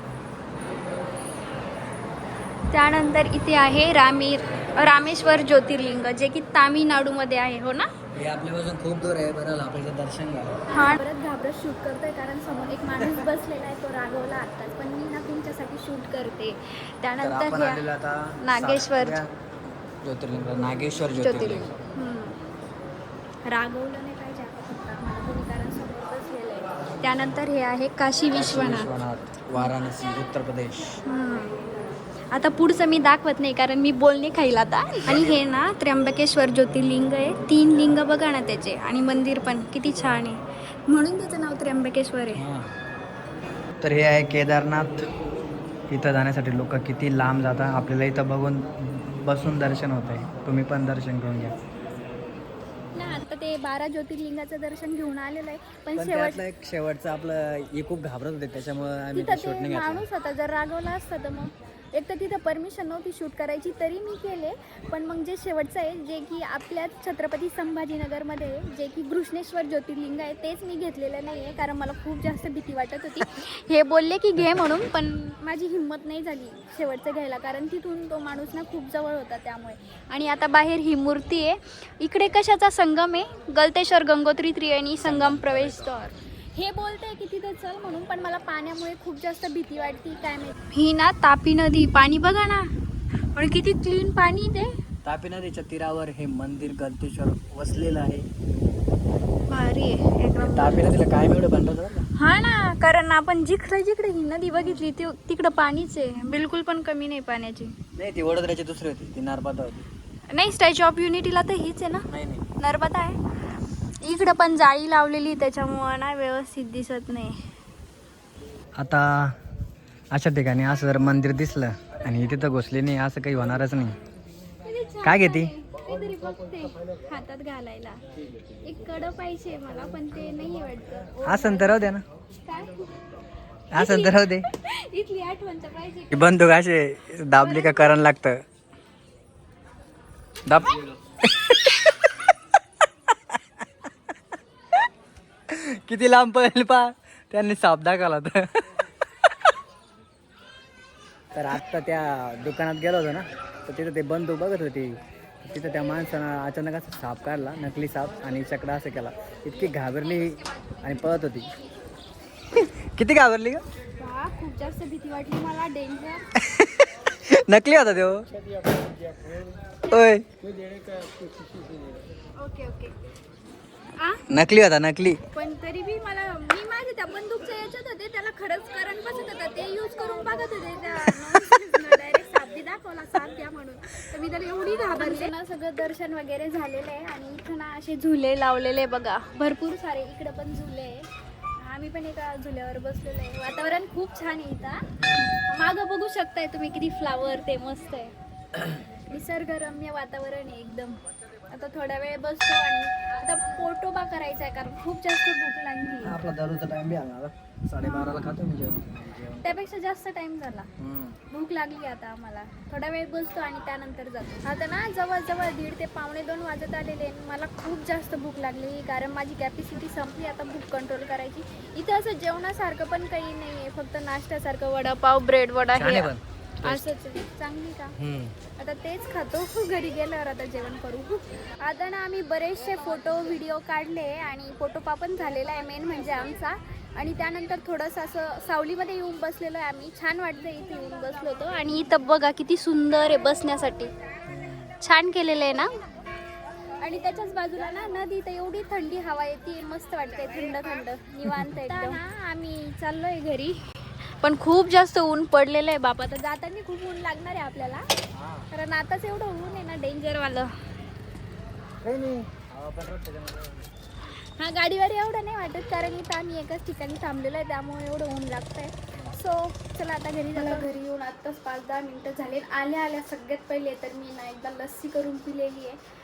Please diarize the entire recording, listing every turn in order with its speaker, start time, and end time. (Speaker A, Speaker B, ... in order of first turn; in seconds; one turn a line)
Speaker A: 2.7-7.9
Speaker B: 8.1-10.7
Speaker A: 10.7-17.9
Speaker B: 17.2-19.3
Speaker A: 18.4-19.2
Speaker B: 20.0-21.7
Speaker A: 21.2-22.4
Speaker A: 23.5-28.9
Speaker B: 28.3-31.0
Speaker A: 31.1-31.6
Speaker A: 32.3-42.4
Speaker B: 42.3-42.7
Speaker B: 43.8-45.1
Speaker B: 45.9-51.6
Speaker A: 52.9-56.4
Speaker B: 56.0-60.1
Speaker A: 59.1-92.7
Speaker B: 85.0-85.9
Speaker A: 93.3-94.8
Speaker B: 95.0-98.3
Speaker A: 99.5-101.0
Speaker B: 100.4-102.1
Speaker A: 102.2-107.8
Speaker B: 104.6-104.9
Speaker B: 107.9-109.9
Speaker A: 110.3-112.1
Speaker B: 112.1-112.5
Speaker A: 112.6-113.3
Speaker A: 114.0-117.4
Speaker B: 118.8-119.4
Speaker B: 120.1-124.0
Speaker A: 124.6-128.0
Speaker B: 125.0-125.5
Speaker A: 128.6-132.9
Speaker B: 131.2-132.0
Speaker B: 133.7-134.5
Speaker A: 133.7-136.4
Speaker B: 136.1-138.4
Speaker A: 137.3-138.0
Speaker B: 140.5-141.9
Speaker B: 145.5-148.6
Speaker B: 151.3-161.5
Speaker B: 162.5-163.6
Speaker A: 164.0-166.3
Speaker B: 166.4-168.3
Speaker B: 169.9-170.3
Speaker A: 172.4-172.9
Speaker A: 174.0-174.2
Speaker B: 174.3-175.2
Speaker A: 175.3-194.9
Speaker B: 195.0-195.3
Speaker A: 195.5-198.1
Speaker A: 198.9-201.0
Speaker A: 201.5-206.2
Speaker B: 206.0-209.6
Speaker A: 207.8-208.3
Speaker A: 209.4-210.7
Speaker B: 210.8-211.2
Speaker A: 211.3-228.0
Speaker B: 225.7-226.9
Speaker B: 227.9-228.4
Speaker A: 228.6-243.9
Speaker B: 244.3-244.8
Speaker A: 244.8-245.7
Speaker A: 246.8-257.9
Speaker B: 258.1-258.5
Speaker A: 258.5-260.5
Speaker B: 261.8-263.7
Speaker A: 264.1-275.8
Speaker B: 268.9-269.2